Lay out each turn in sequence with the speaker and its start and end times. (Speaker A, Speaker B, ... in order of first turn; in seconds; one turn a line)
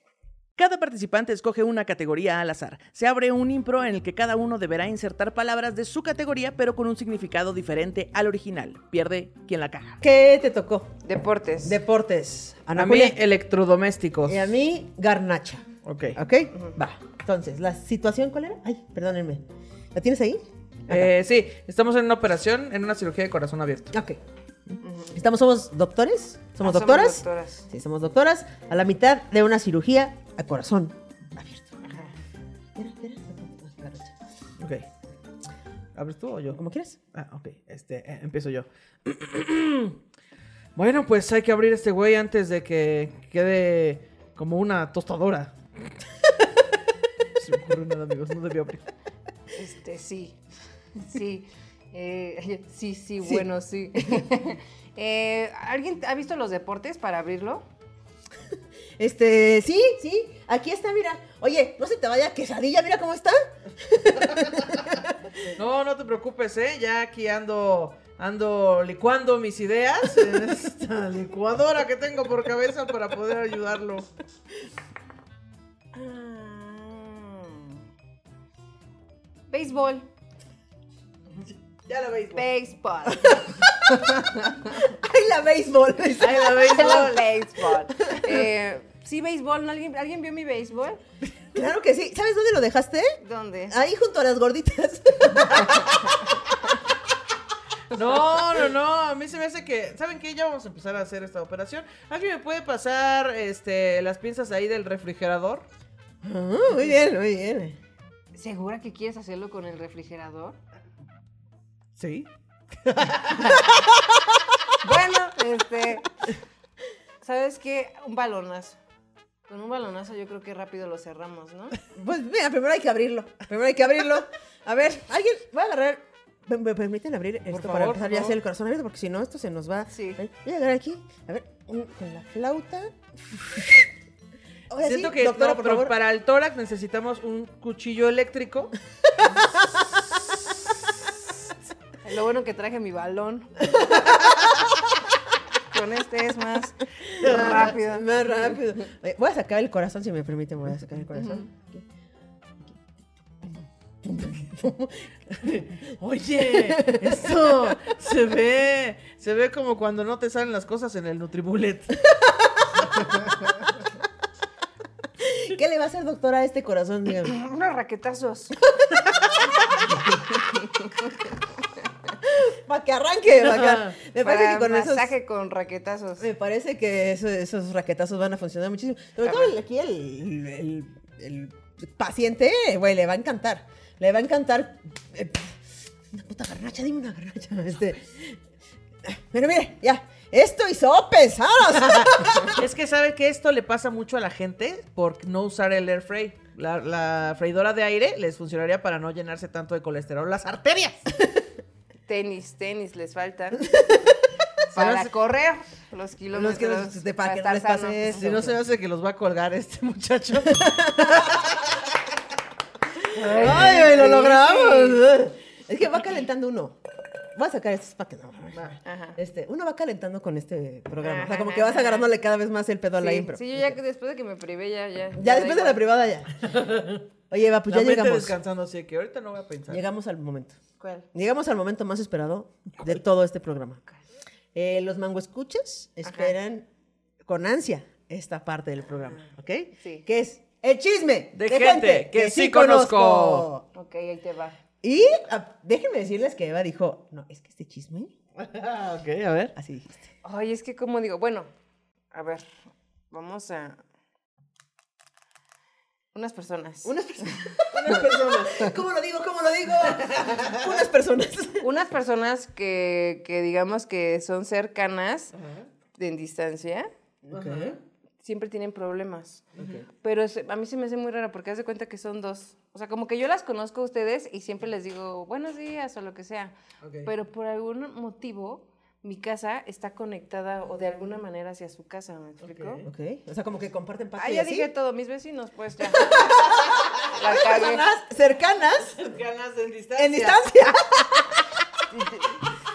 Speaker A: 0.6-10.0
Speaker B: 10.0-10.9
Speaker C: 11.0-11.8
Speaker B: 11.6-13.2
Speaker A: 12.7-14.4
Speaker B: 14.3-21.1
Speaker A: 15.8-16.2
Speaker A: 20.9-23.9
Speaker B: 23.9-24.2
Speaker C: 24.8-25.2
Speaker B: 25.1-31.8
Speaker C: 26.6-27.7
Speaker C: 31.9-32.1
Speaker B: 32.8-34.1
Speaker A: 34.6-34.8
Speaker A: 35.9-36.6
Speaker B: 36.5-37.0
Speaker A: 37.1-40.0
Speaker A: 40.8-45.9
Speaker A: 47.4-48.9
Speaker C: 49.5-50.4
Speaker C: 51.0-57.6
Speaker B: 59.0-65.5
Speaker A: 65.5-74.1
Speaker C: 75.9-77.8
Speaker C: 79.5-80.1
Speaker A: 81.8-82.4
Speaker C: 82.3-83.4
Speaker B: 83.1-87.1
Speaker C: 84.0-84.5
Speaker A: 86.2-87.3
Speaker C: 86.5-91.0
Speaker B: 88.0-88.3
Speaker B: 91.5-93.2
Speaker C: 93.2-93.8
Speaker B: 93.7-96.2
Speaker A: 97.9-105.6
Speaker B: 106.2-107.8
Speaker C: 108.3-110.6
Speaker A: 112.0-112.3
Speaker A: 112.8-114.4
Speaker C: 114.8-116.1
Speaker C: 117.2-118.8
Speaker C: 119.5-121.8
Speaker B: 121.9-133.9
Speaker A: 127.5-128.3
Speaker C: 129.9-130.2
Speaker B: 134.7-135.9
Speaker A: 134.8-138.7
Speaker C: 142.0-143.9
Speaker B: 143.7-144.3
Speaker C: 145.7-148.6
Speaker B: 147.2-151.8
Speaker A: 147.2-147.7
Speaker C: 151.2-151.4
Speaker B: 154.0-155.6
Speaker A: 155.4-162.0
Speaker B: 156.4-157.9
Speaker B: 162.1-162.8
Speaker A: 162.9-163.2
Speaker B: 165.2-167.3
Speaker C: 167.2-168.6
Speaker B: 169.7-170.4
Speaker C: 170.3-171.2
Speaker B: 172.2-175.1
Speaker A: 173.4-173.9
Speaker C: 174.2-176.3
Speaker B: 176.2-185.6
Speaker B: 186.1-188.4
Speaker B: 189.0-192.6
Speaker A: 191.8-201.0
Speaker C: 202.1-203.7
Speaker B: 203.7-204.2
Speaker C: 204.7-208.4
Speaker A: 204.7-205.1
Speaker B: 206.3-208.6
Speaker A: 208.1-211.7
Speaker B: 210.5-211.4
Speaker C: 213.1-215.0
Speaker A: 213.2-214.3
Speaker B: 213.2-216.8
Speaker B: 217.3-218.6
Speaker A: 218.5-218.8
Speaker C: 218.8-219.2
Speaker B: 219.2-223.8
Speaker C: 221.0-222.1
Speaker C: 223.0-225.8
Speaker B: 225.1-226.5
Speaker A: 226.4-227.0
Speaker B: 227.3-228.3
Speaker A: 227.7-229.8
Speaker B: 229.7-230.6
Speaker C: 230.8-231.1
Speaker B: 231.1-233.8
Speaker B: 234.5-236.7
Speaker C: 236.0-236.3
Speaker B: 237.2-243.6
Speaker C: 239.8-240.1
Speaker A: 241.3-243.5
Speaker C: 243.7-244.6
Speaker B: 244.8-248.1
Speaker A: 248.4-249.5
Speaker B: 249.6-250.1
Speaker C: 250.2-251.5
Speaker C: 252.1-252.5
Speaker C: 253.1-253.8
Speaker C: 256.1-258.7
Speaker B: 256.8-261.7
Speaker A: 260.0-260.6
Speaker C: 261.6-265.3
Speaker A: 265.3-265.6
Speaker C: 265.9-266.9
Speaker B: 267.2-267.8
Speaker A: 267.3-267.8
Speaker C: 268.2-282.8
Speaker A: 269.6-269.9
Speaker A: 276.8-277.1
Speaker A: 282.4-282.9
Speaker B: 282.9-284.7
Speaker C: 284.2-287.9
Speaker B: 285.9-289.0
Speaker A: 288.9-290.5
Speaker B: 289.9-291.4
Speaker C: 291.9-292.4